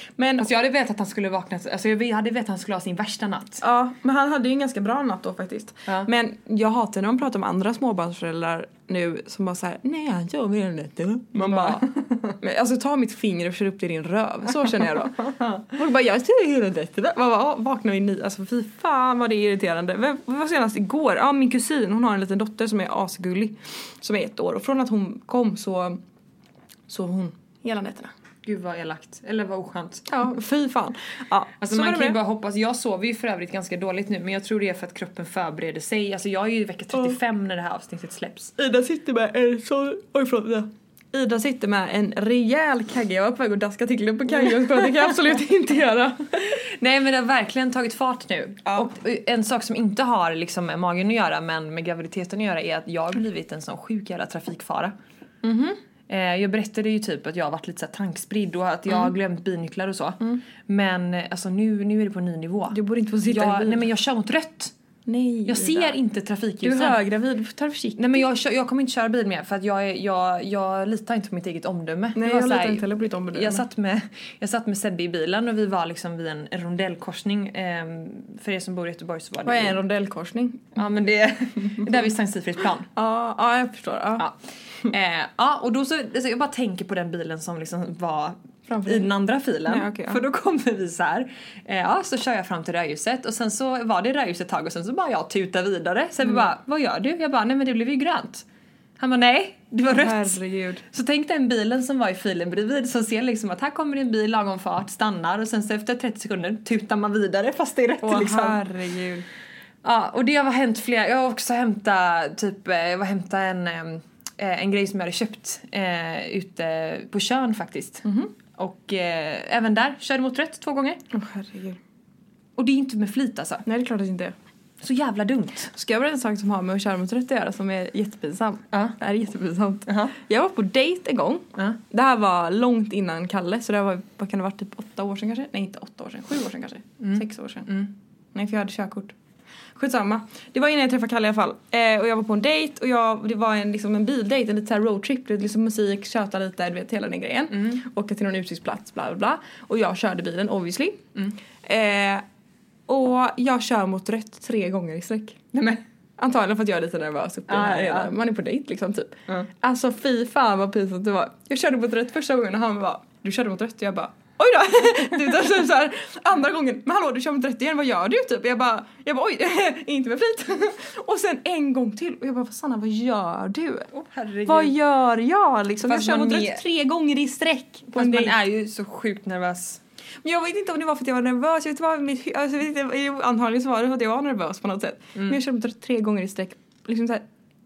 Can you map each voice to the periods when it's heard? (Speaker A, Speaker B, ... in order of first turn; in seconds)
Speaker A: 0.2-0.5, 3.6-26.0, 26.9-28.1, 30.1-32.2, 38.6-46.5, 48.7-48.9, 55.4-55.8, 62.7-63.9, 65.1-66.0, 66.6-68.3, 72.2-73.7, 79.4-80.8, 83.0-84.3, 88.7-89.1, 89.7-90.2, 99.9-100.8, 108.0-109.3, 118.0-118.3, 121.1-121.8, 123.7-124.3, 125.7-137.8, 138.3-139.2, 139.8-151.1, 151.6-152.2, 152.9-155.5, 156.2-173.9, 174.5-178.3, 180.2-187.2
Speaker B: 0.4-3.6, 11.4-12.3, 28.4-30.1, 31.6-38.5, 46.5-55.0, 56.1-64.7, 65.5-67.0, 68.0-79.8, 80.8-82.9, 84.2-98.5, 99.0-108.6, 109.8-121.0, 122.6-123.7, 124.8-125.7, 129.9-130.2, 137.0-137.9, 147.5-147.8, 155.5-155.8, 157.5-158.2, 173.9-174.8, 175.9-176.6, 177.9-179.8